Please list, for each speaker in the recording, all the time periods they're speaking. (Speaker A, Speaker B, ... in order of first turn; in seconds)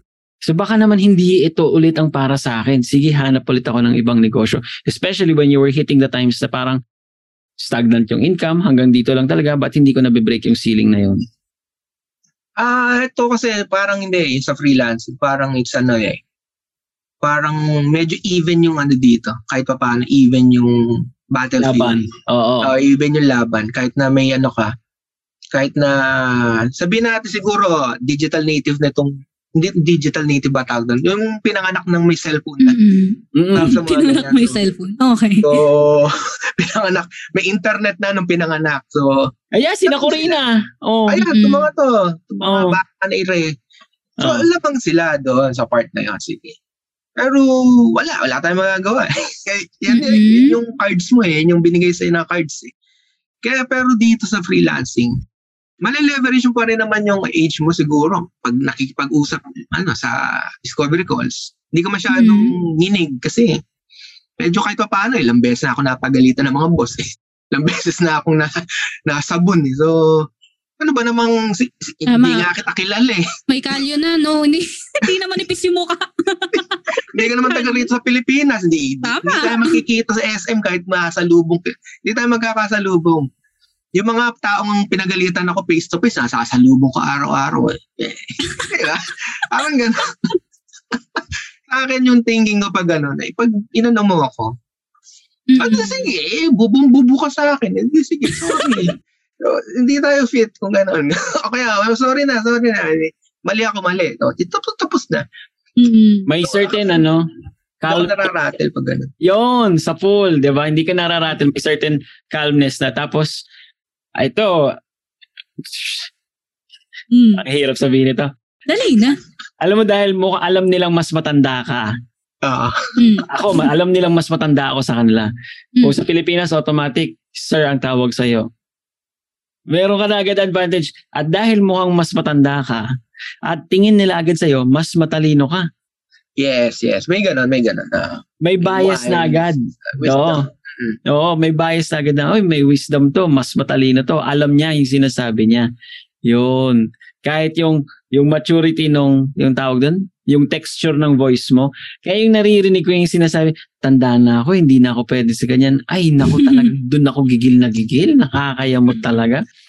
Speaker A: 0.4-6.8, 7.6-11.2, 21.6-22.7, 33.3-33.8, 39.5-41.3, 42.4-42.8, 44.2-44.5, 106.2-107.3, 107.8-108.3, 109.2-113.3, 114.2-114.7, 115.6-116.1, 117.3-118.3, 119.6-121.9, 123.3-125.3, 125.8-128.5, 129.7-132.9, 133.5-135.6, 138.4-140.5, 141.1-145.7, 146.2-159.4
Speaker B: 12.6-16.2, 17.2-22.1, 22.6-24.7, 25.5-32.8, 33.5-34.6, 35.4-39.3, 39.9-40.4, 41.1-43.5, 44.2-46.5, 47.2-52.7, 53.4-55.2, 55.8-63.6, 64.4-70.3, 70.8-73.3, 77.1-83.3, 83.9-90.1, 91.1-94.5, 95.6-105.2, 106.4-107.0, 107.9-109.1, 122.4-122.8, 136.4-141.0
Speaker C: 32.6-35.6, 41.3-41.7, 49.9-50.6, 62.1-62.6, 72.1-72.5, 73.5-77.9, 79.0-79.8, 95.5-96.1, 98.3-98.8, 105.8-106.3, 117.1-117.4, 118.7-119.2, 123.0-123.6, 156.3-156.7